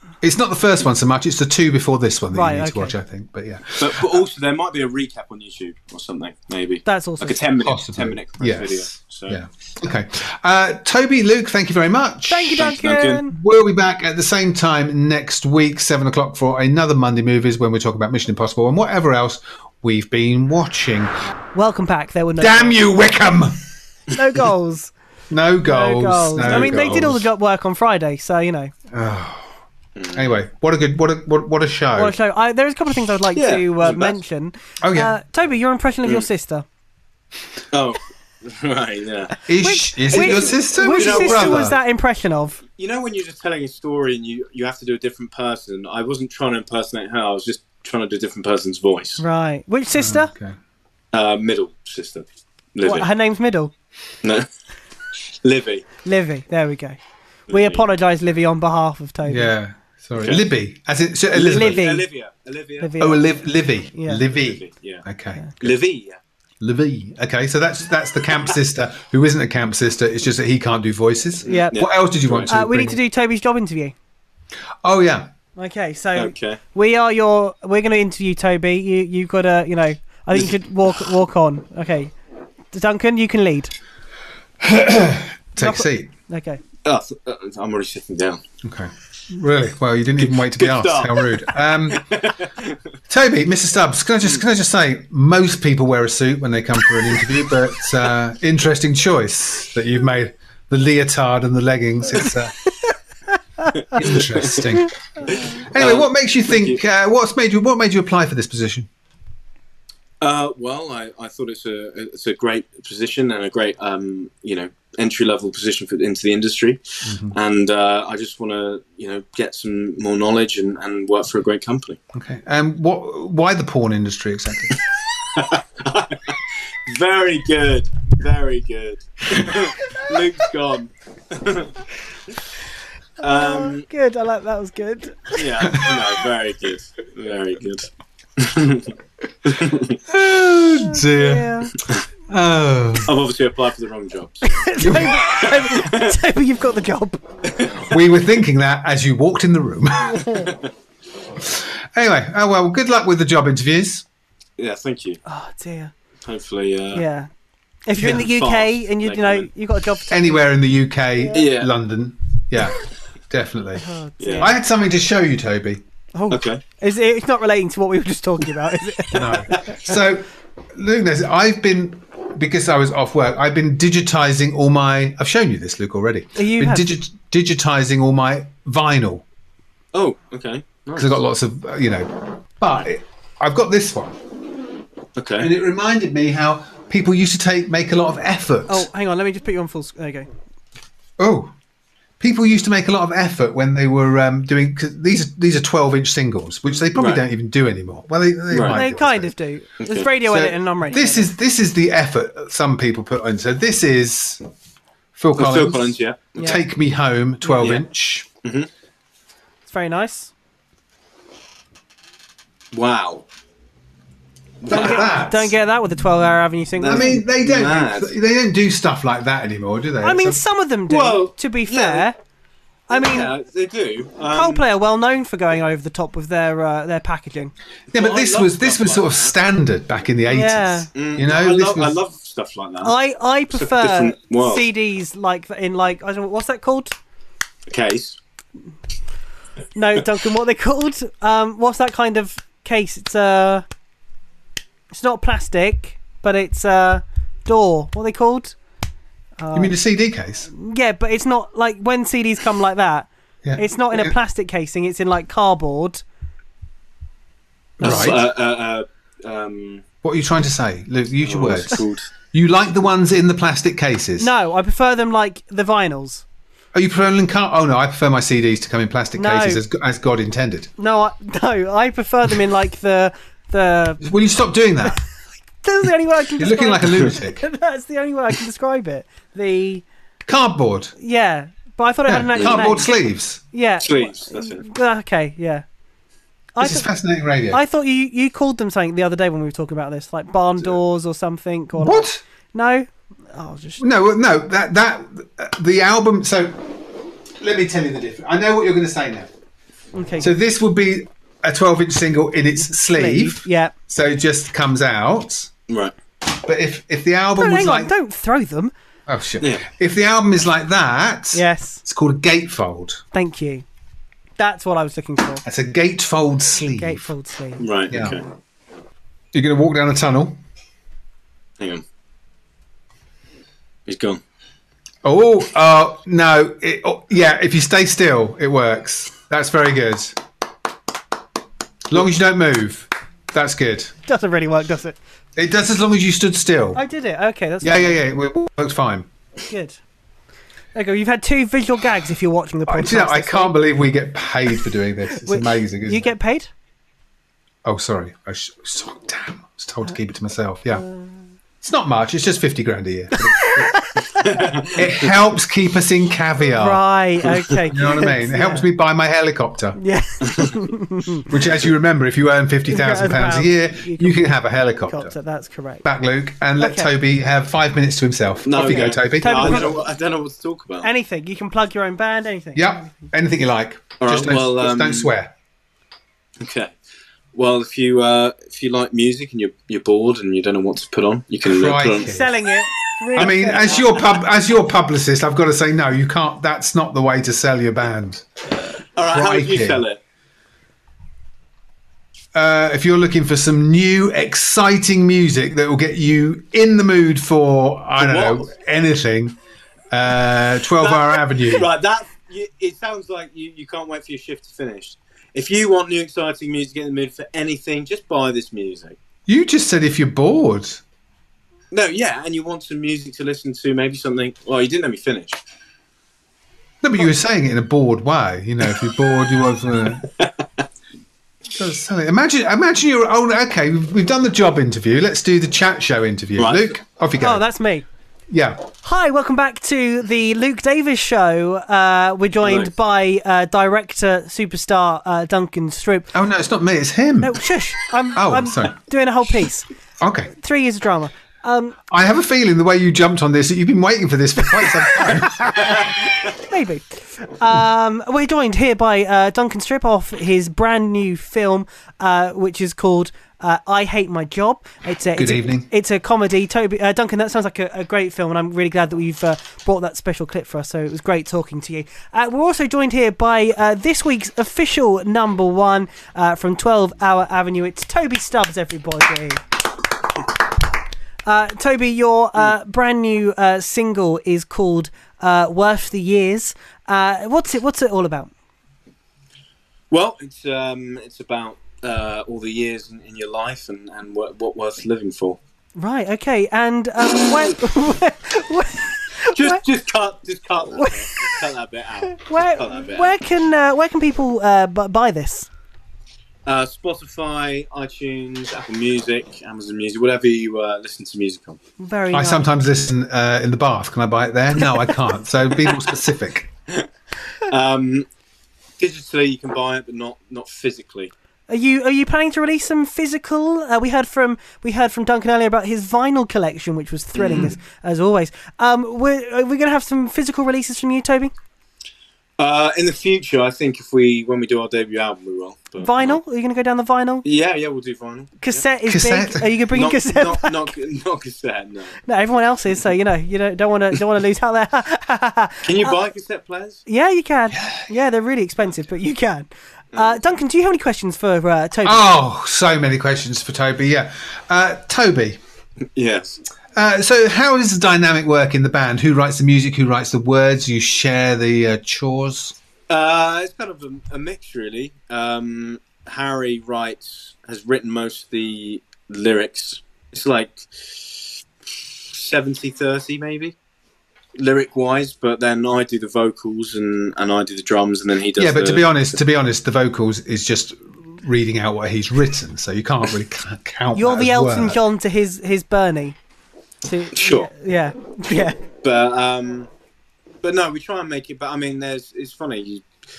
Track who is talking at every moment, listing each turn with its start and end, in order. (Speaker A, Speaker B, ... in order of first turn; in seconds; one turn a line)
Speaker A: 0.2-4.2
Speaker B: 2.3-3.0
Speaker C: 3.8-9.4
Speaker B: 6.8-7.4
Speaker A: 7.6-12.8
Speaker B: 12.3-13.3
Speaker C: 12.6-13.2
Speaker A: 13.3-21.1
Speaker B: 21.5-22.8
Speaker A: 22.4-23.6
Speaker B: 24.1-24.9
Speaker A: 25.3-27.3
Speaker B: 25.6-28.7
Speaker C: 26.4-26.9
Speaker A: 28.9-29.5
Speaker C: 30.0-30.3
Speaker A: 30.1-32.2
Speaker B: 32.0-36.6
Speaker C: 33.4-34.2
Speaker A: 34.8-35.2
Speaker C: 37.7-39.4
Speaker A: 39.5-41.8
Speaker B: 39.6-42.6
Speaker C: 40.1-41.7
Speaker C: 42.8-49.2
Speaker B: 49.2-50.3
Speaker A: 50.0-50.6
Speaker C: 51.1-53.1
Speaker B: 52.8-53.7
Speaker C: 54.2-54.5
Speaker C: 55.4-55.9
Speaker B: 56.0-59.5
Speaker C: 57.5-57.9
Speaker A: 59.3-61.8
Speaker C: 61.4-63.2
Speaker B: 61.4-62.1
Speaker B: 62.8-63.2
Speaker A: 63.0-65.8
Speaker B: 64.0-64.2
Speaker C: 64.3-65.0
Speaker C: 65.6-66.2
Speaker A: 66.6-73.0
Speaker C: 71.5-72.5
Speaker B: 71.5-71.8
Speaker B: 72.5-73.9
Speaker A: 74.8-75.3
Speaker B: 75.6-82.1
Speaker C: 76.2-76.6
Speaker B: 82.7-83.7
Speaker A: 84.6-86.1
Speaker B: 85.6-86.6
Speaker C: 86.8-88.4
Speaker A: 88.6-92.1
Speaker C: 90.2-92.8
Speaker A: 93.1-102.5
Speaker C: 103.8-104.7
Speaker A: 103.9-108.9
Speaker C: 105.3-106.8
Speaker C: 110.2-122.0
Speaker A: 117.0-117.4
Speaker A: 122.1-124.8
Speaker C: 125.2-131.7
Speaker B: 133.2-135.4
Speaker C: 133.2-133.9
Speaker C: 135.3-138.9
Speaker A: 135.7-136.0
Speaker C: 139.4-140.0
Speaker A: 140.1-141.6
Speaker B: 140.8-141.7
Speaker A: 142.3-143.1
Speaker C: 143.1-146.2
Speaker B: 144.4-147.2
Speaker A: 144.8-145.3
Speaker C: 147.5-147.9
Speaker A: 147.9-150.5
Speaker B: 150.2-150.5
Speaker A: 151.4-154.1
Speaker C: 154.6-155.2
Speaker B: 155.3-155.9
Speaker C: 156.2-157.1
Speaker B: 156.9-157.3
Speaker B: 157.9-160.4
Speaker C: 158.0-159.5
Speaker A: 160.1-163.8
Speaker C: 161.3-161.7
Speaker B: 163.8-164.5
Speaker C: 164.2-164.5
Speaker A: 164.4-165.8
Speaker B: 166.2-169.6
Speaker C: 166.3-166.6
Speaker A: 169.1-179.2
Speaker C: 169.5-169.8
Speaker B: 176.4-176.9
Speaker C: 179.9-181.2
Speaker A: 181.0-184.2
Speaker C: 185.2-185.5
Speaker A: 185.4-188.9
Speaker B: 188.7-190.3
Speaker A: 191.2-191.5
Speaker A: 192.2-199.3
Speaker C: 197.0-197.2
Speaker C: 198.5-198.8
Speaker B: 198.7-201.3
Speaker C: 199.8-200.1
Speaker A: 200.2-204.4
Speaker A: 205.2-208.3
Speaker C: 205.4-206.6
Speaker B: 206.4-206.6
Speaker B: 207.4-207.8
Speaker B: 209.7-210.3
Speaker C: 212.7-213.2
Speaker C: 214.6-215.1
Speaker A: 214.7-215.5
Speaker B: 214.7-217.2
Speaker C: 216.8-218.1
Speaker A: 216.8-220.4
Speaker B: 220.0-222.2
Speaker C: 220.9-222.1
Speaker B: 222.9-223.3
Speaker C: 222.9-224.6
Speaker B: 224.3-227.5
Speaker A: 227.9-231.9
Speaker C: 227.9-229.3
Speaker B: 230.3-230.9
Speaker C: 230.9-233.0
Speaker B: 232.8-236.9
Speaker C: 233.5-234.7
Speaker C: 237.7-238.2
Speaker B: 239.8-243.7
Speaker B: 244.9-248.6
Speaker B: 249.4-249.8
Speaker A: 249.5-250.5
Speaker B: 250.5-256.0
Speaker A: 253.4-254.2
Speaker A: 257.8-258.2
Speaker C: 257.8-259.9
Speaker A: 260.0-264.3
Speaker C: 261.2-262.1
Speaker B: 264.2-266.2
Speaker A: 266.7-270.7
Speaker B: 269.2-269.6
Speaker B: 270.8-274.0
Speaker A: 274.0-275.0
Speaker B: 275.6-279.9
Speaker A: 276.4-277.4
Speaker A: 280.3-280.9
Speaker B: 281.0-282.9
Speaker A: 282.1-283.4
Speaker C: 282.4-282.7
Speaker B: 283.5-285.6
Speaker C: 283.8-284.6
Speaker B: 286.6-286.9
Speaker A: 286.6-287.6
Speaker B: 287.5-293.8
Speaker A: 291.8-292.2
Speaker A: 293.8-296.8
Speaker A: 297.4-299.3
Speaker B: 299.9-300.3
Speaker A: 300.2-305.5
Speaker B: 302.6-303.7
Speaker C: 305.7-305.9
Speaker A: 306.3-307.9
Speaker B: 307.4-308.7
Speaker A: 309.1-313.0
Speaker B: 311.3-311.8
Speaker B: 313.1-313.6
Speaker B: 314.4-315.4
Speaker A: 315.4-317.1
Speaker B: 316.8-317.6
Speaker C: 317.6-318.2
Speaker A: 317.9-318.2
Speaker A: 319.3-320.4
Speaker C: 323.9-324.2
Speaker A: 325.0-330.2
Speaker A: 331.9-333.9
Speaker B: 334.1-335.0
Speaker A: 335.4-336.8
Speaker B: 336.8-338.0
Speaker A: 337.6-339.1
Speaker B: 339.5-339.8
Speaker B: 340.8-343.6
Speaker A: 342.7-346.1
Speaker B: 345.1-346.5
Speaker A: 347.6-350.9
Speaker B: 350.8-351.2
Speaker A: 351.6-353.8
Speaker B: 353.1-354.5
Speaker C: 354.2-355.1
Speaker A: 354.7-356.8
Speaker B: 356.5-358.7
Speaker A: 357.7-359.8
Speaker B: 359.8-361.3
Speaker A: 361.3-365.1
Speaker B: 362.7-365.9
Speaker A: 365.8-369.7
Speaker B: 366.6-366.9
Speaker C: 368.5-370.9
Speaker B: 368.6-369.8
Speaker B: 370.8-373.1
Speaker A: 372.6-375.3
Speaker C: 374.0-375.1
Speaker C: 376.4-376.7
Speaker C: 377.3-382.1
Speaker A: 381.4-382.3
Speaker B: 382.0-384.0
Speaker A: 383.1-388.3
Speaker C: 383.2-383.8
Speaker C: 389.0-390.0
Speaker A: 389.1-389.8
Speaker A: 392.3-399.4
Speaker C: 398.0-398.5
Speaker A: 399.9-401.7
Speaker C: 400.8-409.0
Speaker A: 409.3-410.8
Speaker C: 411.7-415.4
Speaker A: 416.8-420.1
Speaker C: 420.0-420.3
Speaker A: 421.6-427.4
Speaker C: 426.4-426.8
Speaker B: 427.2-427.9
Speaker A: 428.3-428.7
Speaker B: 428.8-436.1
Speaker C: 432.4-432.7
Speaker A: 436.1-437.4
Speaker B: 437.2-439.7
Speaker A: 438.1-438.8
Speaker A: 440.0-440.3
Speaker B: 440.4-441.8
Speaker A: 441.9-445.9
Speaker B: 446.3-469.4
Speaker A: 455.1-455.7
Speaker B: 471.3-478.3
Speaker C: 479.9-485.4
Speaker B: 485.8-489.6
Speaker C: 489.3-493.2
Speaker B: 490.8-491.4
Speaker B: 492.1-495.5
Speaker C: 496.5-501.6
Speaker B: 501.8-502.5
Speaker A: 502.1-506.5
Speaker C: 507.5-508.1
Speaker C: 508.8-511.1
Speaker B: 511.5-521.3
Speaker C: 517.1-517.6
Speaker C: 522.4-526.2
Speaker B: 525.8-527.2
Speaker C: 527.2-528.6
Speaker B: 528.4-530.7
Speaker A: 528.9-529.5
Speaker C: 529.7-532.0
Speaker B: 532.1-536.0
Speaker C: 535.6-536.8
Speaker B: 536.9-542.0
Speaker A: 537.5-537.9
Speaker C: 539.9-540.2
Speaker A: 541.8-545.4
Speaker C: 546.0-546.4
Speaker A: 546.8-552.6
Speaker C: 552.9-561.4
Speaker C: 562.1-563.5
Speaker C: 564.4-569.0
Speaker A: 568.4-574.8
Speaker B: 574.0-576.2
Speaker B: 576.9-578.6
Speaker C: 577.1-577.5
Speaker C: 578.3-579.7
Speaker C: 580.4-582.9